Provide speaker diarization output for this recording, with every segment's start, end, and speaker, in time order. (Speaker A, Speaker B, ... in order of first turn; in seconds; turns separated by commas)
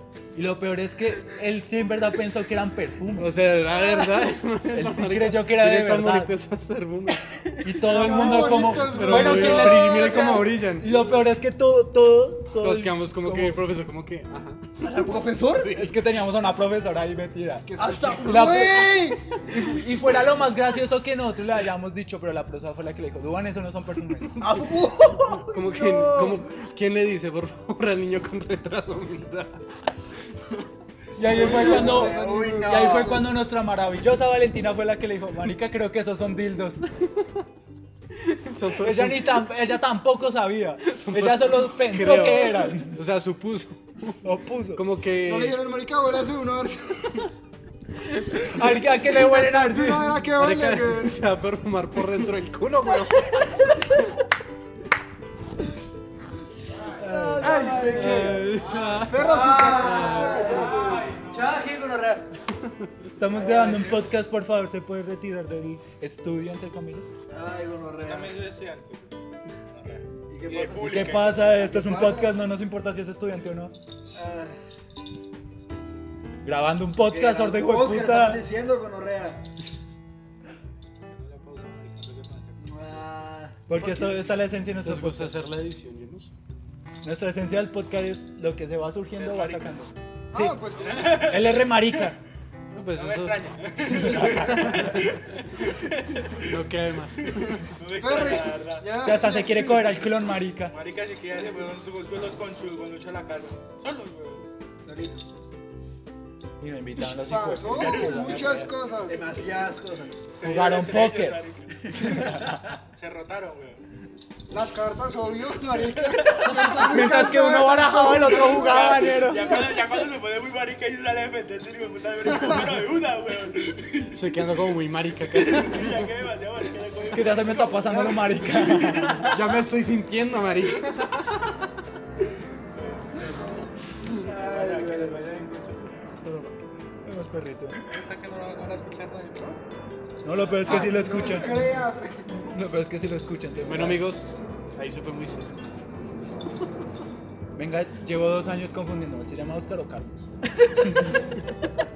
Speaker A: 0.3-3.3, Speaker B: 3.2-7.3, Speaker C: 3.9-4.2, Speaker A: 4.7-6.3, Speaker A: 7.6-13.6, Speaker D: 7.8-10.5, Speaker B: 8.1-10.9, Speaker B: 12.6-14.9, Speaker C: 14.8-15.8, Speaker B: 15.5-15.9, Speaker A: 15.7-24.4, Speaker C: 17.7-19.4, Speaker D: 17.8-18.3, Speaker C: 24.4-26.4, Speaker B: 24.4-29.6, Speaker A: 31.1-36.8, Speaker C: 31.2-33.2, Speaker D: 31.2-33.2, Speaker B: 38.1-39.4, Speaker A: 38.8-43.0, Speaker B: 40.8-45.6, Speaker A: 44.2-44.8, Speaker D: 45.2-47.3, Speaker B: 48.0-48.6, Speaker A: 48.5-50.1, Speaker D: 49.0-51.2, Speaker B: 50.4-54.0, Speaker A: 56.9-58.3, Speaker C: 57.0-62.3, Speaker D: 57.4-58.4, Speaker B: 57.6-60.6, Speaker D: 59.0-60.9, Speaker E: 60.7-61.2, Speaker A: 63.2-67.1, Speaker C: 63.3-64.0, Speaker C: 67.3-68.4, Speaker E: 68.0-69.1, Speaker E: 69.7-71.5, Speaker C: 70.3-72.3, Speaker A: 70.8-73.7, Speaker C: 74.1-74.6, Speaker A: 76.4-78.5, Speaker C: 77.0-79.5, Speaker E: 81.1-82.8, Speaker C: 82.6-83.6, Speaker A: 83.7-85.4, Speaker B: 84.8-86.4, Speaker A: 87.0-90.6, Speaker E: 89.2-89.8, Speaker D: 90.3-91.3, Speaker E: 90.8-91.7, Speaker A: 91.1-92.2, Speaker B: 92.7-95.0, Speaker E: 93.0-96.5, Speaker A: 94.0-94.5, Speaker B: 96.3-97.7, Speaker E: 97.6-99.0, Speaker D: 98.0-100.0, Speaker A: 99.0-100.7, Speaker E: 100.7-104.5, Speaker C: 104.8-105.4, Speaker A: 106.6-108.7, Speaker D: 107.0-109.3, Speaker C: 108.0-110.2, Speaker E: 110.3-112.4, Speaker A: 110.4-111.4, Speaker A: 111.9-112.6, Speaker E: 112.9-113.8, Speaker D: 114.5-118.9, Speaker E: 116.2-116.6, Speaker A: 116.7-119.6, Speaker E: 118.2-124.2, Speaker B: 124.1-126.0, Speaker E: 125.3-128.3, Speaker A: 127.1-129.4, Speaker D: 128.2-129.1, Speaker B: 129.2-131.5, Speaker E: 132.9-133.6, Speaker E: 134.1-136.1, Speaker C: 134.3-135.3, Speaker B: 136.2-136.6, Speaker A: 137.1-137.8, Speaker E: 137.8-139.6, Speaker E: 140.2-140.8, Speaker A: 140.2-141.7, Speaker D: 140.6-142.4, Speaker A: 142.5-144.1, Speaker B: 143.6-145.6, Speaker A: 147.6-150.3